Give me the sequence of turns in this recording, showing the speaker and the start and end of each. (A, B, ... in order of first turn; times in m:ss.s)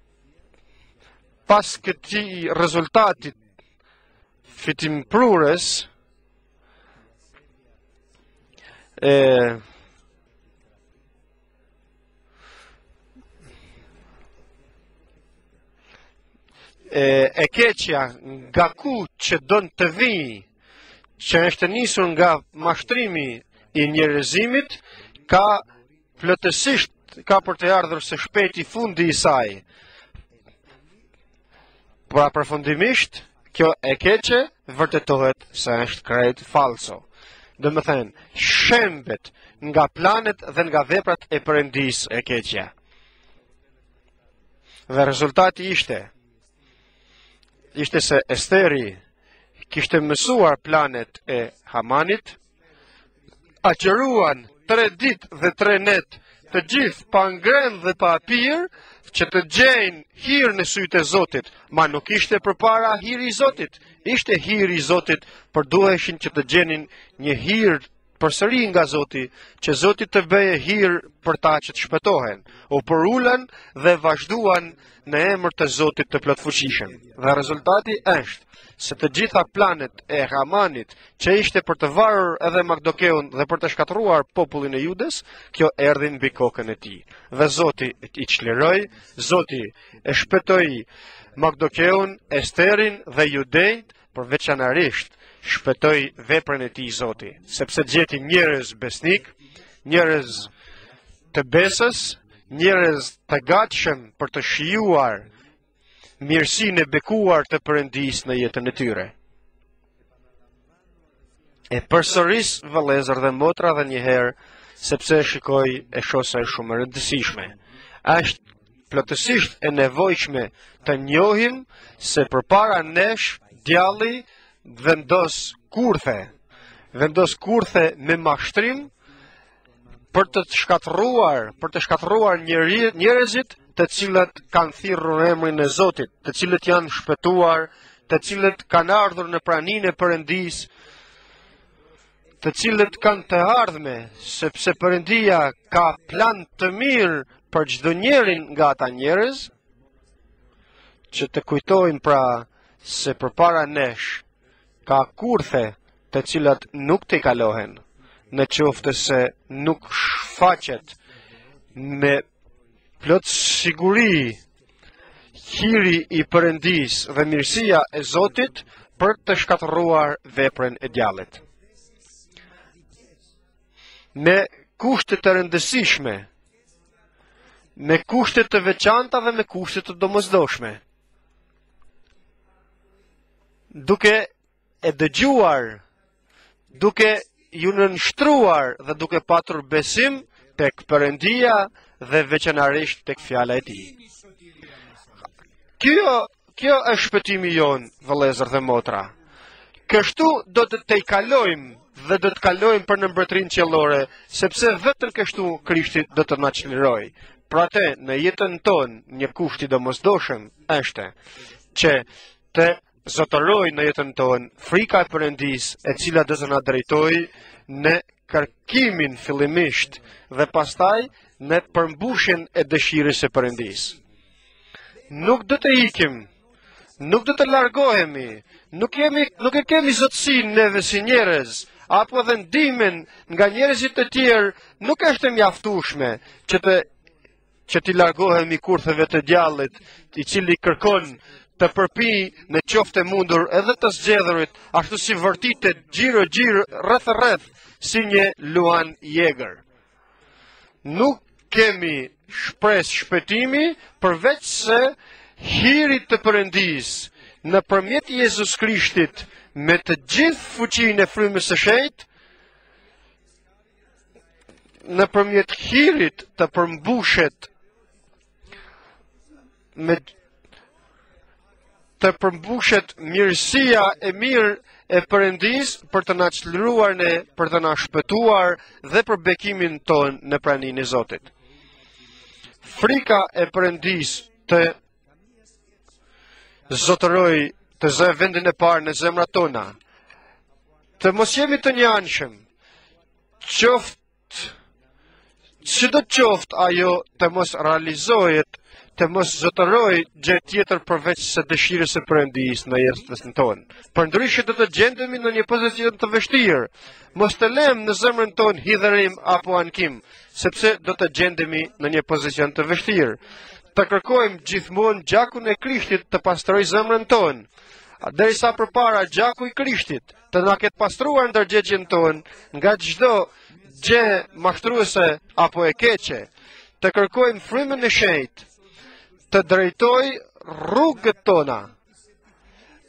0:01.5-0:03.4 A
0:04.5-0:05.9 A
0:09.0-0:09.6 A
0:16.9-0:20.4 A
0:21.2-0:25.6 A
0:26.2-0:29.6 A
0:32.1-0:37.0 A
0:37.6-0:42.7 A
0:44.9-0:46.1 A
0:47.8-0:49.0 A
0:49.7-0:52.4 A
0:53.6-1:40.5 A
1:41.3-1:45.3 A
1:46.2-1:49.1 A
1:51.7-1:58.4 A
1:58.9-2:06.3 A
2:06.9-2:08.9 A
2:10.1-2:20.7 A
2:22.4-2:29.5 A
2:31.1-2:34.2 A
2:34.9-2:41.0 A
2:41.8-2:42.2 A
2:43.0-2:44.4 A
2:45.4-2:51.4 A
2:54.2-2:56.3 A
2:57.8-3:00.8 A
3:03.7-3:04.3 A
3:04.8-3:05.8 A
3:06.8-3:13.9 A
3:15.8-3:19.1 A
3:19.9-3:31.1 A
3:31.8-3:44.0 A
3:45.1-3:46.3 A
3:47.0-3:56.9 A
3:57.7-4:09.6 A
4:10.8-4:22.1 A
4:24.8-4:27.5 A
4:29.8-4:30.1 A
4:32.0-4:41.3 A
4:42.6-4:44.8 A
4:46.7-4:49.8 A
4:51.0-4:52.4 A
4:53.4-4:54.5 A
4:55.6-5:13.2 A
5:13.8-5:17.5 A
5:18.0-5:26.3 A
5:26.8-5:28.5 A
5:29.3-5:31.7 A